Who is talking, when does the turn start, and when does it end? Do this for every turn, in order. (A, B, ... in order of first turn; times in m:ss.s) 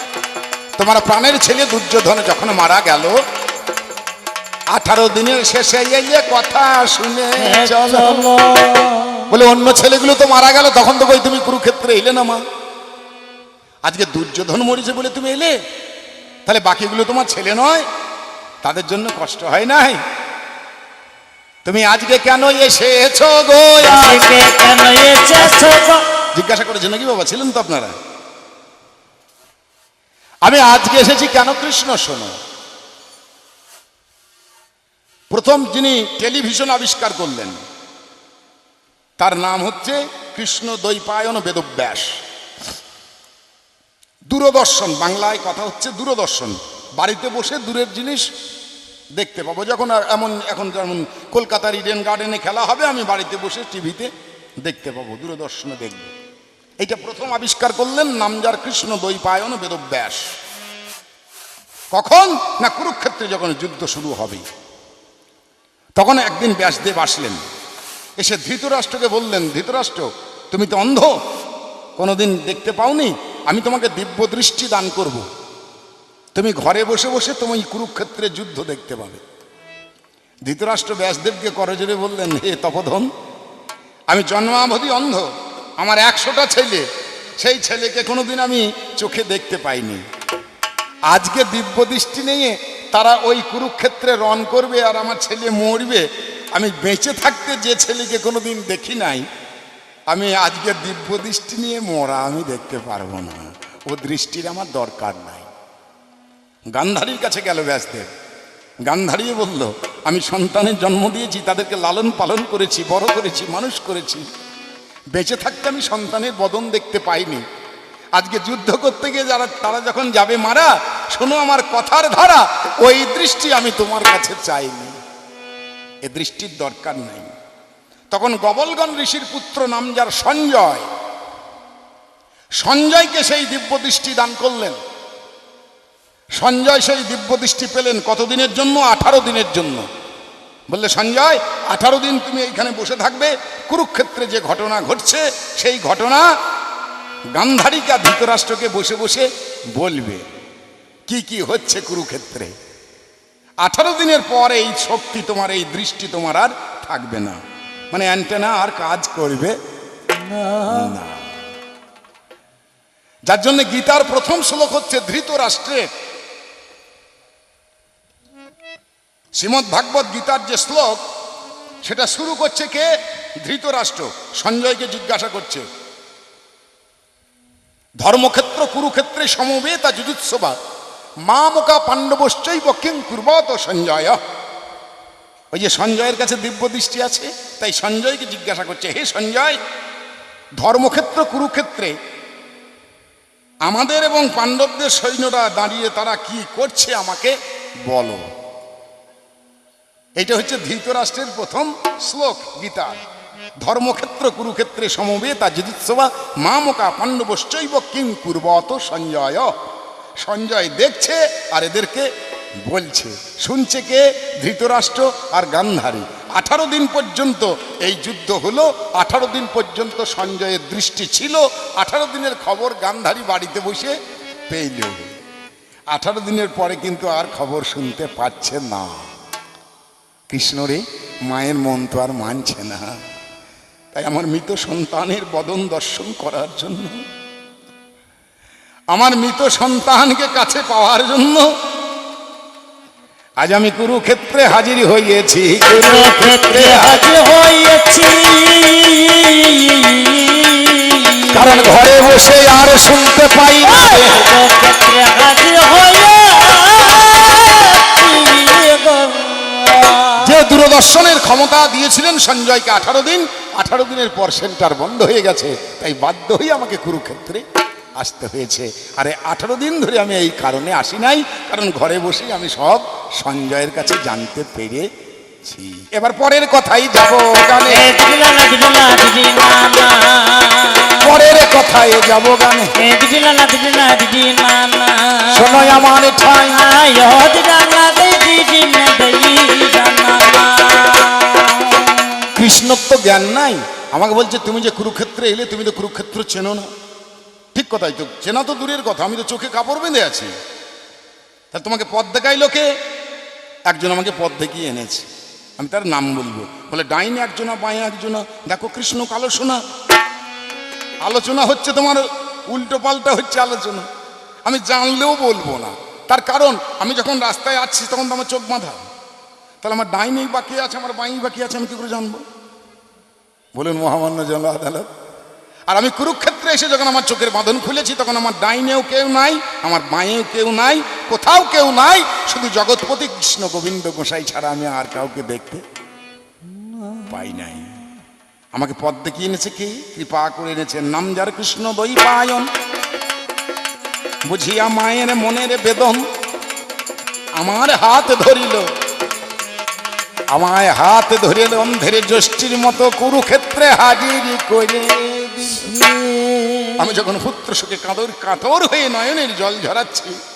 0:00.8-0:03.2 A
0:04.7-0:08.3 A
0:07.4-0:09.3 B
0:09.3-0:12.4 A
0:13.8-0:15.5 A
0:16.5-0:17.8 A
0:18.6-0:20.0 A
0:21.6-0:24.4 A
0:23.8-0:26.0 B
0:26.4-0:28.0 A
0:30.4-0:32.4 A
0:35.3-0:37.6 A
0:39.2-0:42.2 A
0:44.3-0:48.3 A
0:49.2-0:54.1 A
0:54.6-0:56.1 A
0:56.8-1:00.3 A
1:01.9-1:04.4 A
1:06.0-1:07.4 A
1:08.2-1:11.1 A
1:12.0-1:15.2 A
1:16.4-1:19.2 A
1:20.5-1:23.1 A
1:24.1-1:25.3 A
1:25.8-1:26.9 A
1:27.4-1:30.0 A
1:31.1-1:39.3 A
1:40.1-1:45.5 A
1:46.7-1:48.1 A
1:48.9-1:54.3 A
1:55.1-1:57.4 A
1:58.2-2:05.0 A
2:06.0-2:07.3 A
2:08.1-2:10.9 A
2:12.6-2:14.8 A
2:16.4-2:19.9 A
2:20.7-2:26.2 A
2:27.4-2:30.3 A
2:31.1-2:32.5 A
2:33.6-2:37.4 A
2:37.9-2:39.6 A
2:40.1-2:41.0 B
2:40.7-2:41.2 A
2:43.3-2:45.9 A
2:49.4-2:51.0 A
2:51.8-2:52.9 A
2:53.4-2:55.6 A
2:58.0-3:00.6 A
3:01.2-3:04.2 A
3:05.5-3:09.6 A
3:10.6-3:12.0 A
3:13.7-3:18.3 A
3:20.2-3:23.0 A
3:23.6-3:29.5 A
3:30.2-3:32.1 A
3:32.6-3:44.0 A
3:44.5-3:45.2 A
3:45.9-3:49.0 A
3:50.3-3:52.9 A
3:54.0-3:57.0 A
3:58.9-4:01.5 A
4:03.4-4:07.1 A
4:05.7-4:11.8 B
4:11.3-4:14.3 A
4:13.7-4:20.3 B
4:20.2-4:27.4 A
4:28.0-4:34.9 A
4:35.4-4:37.9 A
4:37.6-4:41.1 B
4:41.0-4:42.7 A
4:42.8-4:45.8 B
4:45.3-4:46.6 A
4:46.5-4:52.3 B
4:52.4-4:56.7 A
4:57.5-5:00.3 A
5:01.5-5:02.7 A
5:03.7-5:05.1 A
5:05.6-5:09.6 A
5:11.0-5:13.9 A
5:14.4-5:18.8 A
5:19.6-5:22.2 A
5:23.6-5:24.9 A
5:25.7-5:35.6 A
5:36.5-5:37.1 B
5:37.1-5:37.7 A
5:38.5-5:42.5 A
5:44.3-5:46.0 A
5:47.4-5:48.7 A
5:50.3-5:55.7 A
5:55.5-5:56.9 B
5:56.8-6:00.2 A